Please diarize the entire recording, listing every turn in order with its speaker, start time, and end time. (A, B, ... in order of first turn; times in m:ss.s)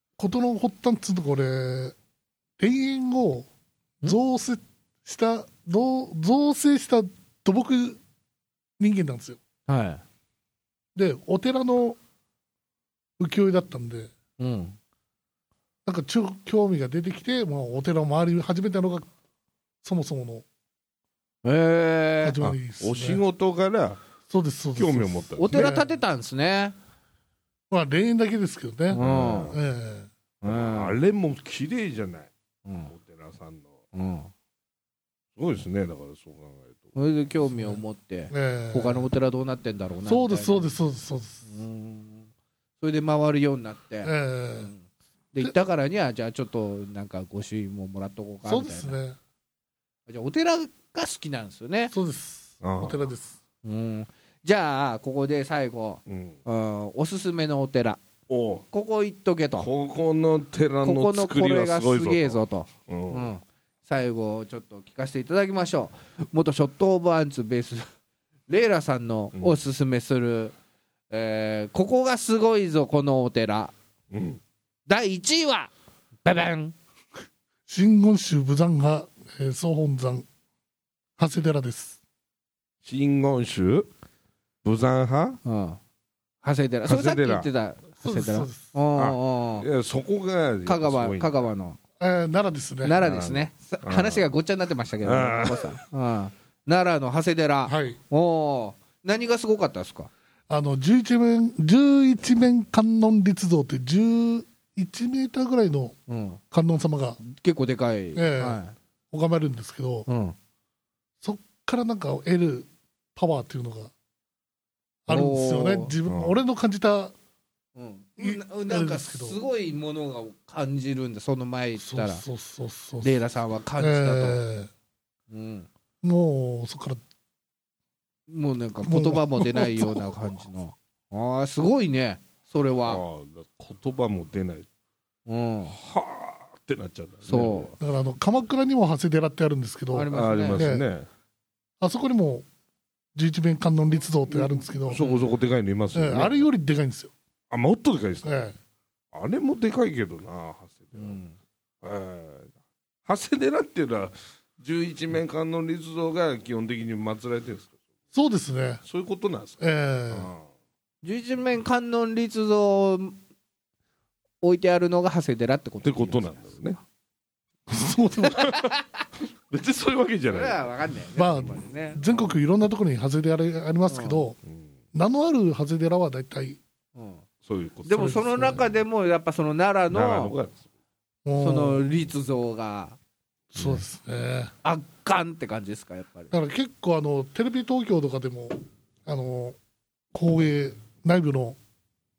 0:00.2-0:02.0 A
0:02.6-0:03.5 A
0:04.0-0:08.0 A
0:08.8-0:09.4 A
0:09.7-0:10.0 B
0:10.9-0:12.0 A
0:13.2-0:14.1 A
0:14.4-0:14.8 B
0:15.8-0:19.1 A
0:19.8-0:20.4 A
0:21.4-0:22.4 B
0:22.2-0:23.2 A
0:22.4-0:24.0 C
0:24.3-0:25.9 A
0:24.8-0:25.7 C
0:25.4-0:26.8 B
0:27.7-0:30.1 A
0:28.9-0:29.5 B
0:29.0-0:29.6 C
0:30.4-0:30.9 B
0:30.4-0:32.3 C
0:32.6-0:32.9 B
0:32.9-0:33.7 C
0:33.9-0:34.3 B
0:35.4-0:37.0 C
0:36.9-0:40.7 B
0:37.5-0:39.1 A
0:40.0-0:41.4 A
0:41.4-0:42.3 B
0:42.8-0:49.0 B
0:44.0-0:44.7 A
0:48.4-0:49.2 A
0:50.1-0:51.9 B
0:51.9-0:53.4 A
0:52.6-0:53.0 C
0:53.6-0:58.0 B
0:56.1-0:56.4 C
0:58.3-0:58.6 C
0:58.7-0:59.7 B
0:59.6-1:03.3 C
1:00.8-1:07.9 B
1:08.5-1:10.5 B
1:11.1-1:13.7 B
1:14.1-1:14.4 C
1:14.9-1:15.7 B
1:16.2-1:16.7 B
1:17.7-1:20.2 A
1:21.2-1:22.0 A
1:22.8-1:23.9 C
1:24.6-1:25.4 C
1:25.4-1:25.8 B
1:26.4-1:29.7 B
1:26.8-1:27.5 C
1:28.0-1:28.6 A
1:28.9-1:31.4 C
1:30.6-1:31.8 B
1:32.0-1:33.0 A
1:32.8-1:40.1 B
1:33.0-1:34.3 C
1:35.0-1:35.7 C
1:37.6-1:38.0 A
1:40.5-1:46.0 A
1:46.1-1:46.4 B
1:46.5-1:47.2 A
1:47.2-1:48.7 B
1:48.1-1:48.6 A
1:49.1-1:50.1 A
1:50.1-1:50.4 B
1:51.2-1:53.9 A
1:55.1-1:57.1 A
1:55.1-1:55.9 B
1:56.1-1:56.4 C
1:57.7-2:02.2 B
1:58.2-1:59.4 A
2:01.8-2:03.2 A
2:03.0-2:04.4 B
2:03.8-2:04.7 A
2:05.3-2:05.7 B
2:06.0-2:07.0 A
2:08.3-2:13.0 B
2:08.8-2:10.2 A
2:12.9-2:14.6 C
2:15.3-2:15.7 B
2:15.7-2:17.7 C
2:17.3-2:17.7 B
2:17.8-2:20.8 A
2:19.9-2:20.6 B
2:20.1-2:21.1 C
2:21.8-2:22.4 A
2:23.1-2:25.0 A
2:24.3-2:26.5 C
2:25.0-2:25.3 B
2:25.9-2:27.1 A
2:27.5-2:28.4 C
2:28.2-2:28.5 A
2:29.1-2:31.2 C
2:31.0-2:31.3 B
2:31.8-2:32.5 C
2:33.0-2:37.7 C
2:38.1-2:38.8 A
2:38.8-2:40.4 C
2:39.6-2:40.3 A
2:41.0-2:43.2 B
2:44.4-2:46.7 B
2:45.8-2:46.8 C
2:47.7-2:48.5 A
2:48.4-2:49.0 B
2:48.4-2:48.7 C
2:49.5-2:50.7 C
2:50.3-2:52.0 B
2:51.2-2:54.4 A
2:51.4-2:52.3 C
2:53.9-2:54.2 B
2:54.4-2:54.7 C
2:54.9-2:56.6 A
2:56.9-2:57.2 B
2:57.4-2:58.2 C
2:57.8-3:00.4 B
2:57.9-2:58.6 A
2:59.9-3:00.6 C
3:01.2-3:01.8 A
3:01.4-3:03.0 B
3:03.5-3:04.5 A
3:03.6-3:03.8 C
3:04.6-3:06.3 B
3:06.3-3:09.6 A
3:10.1-3:11.6 A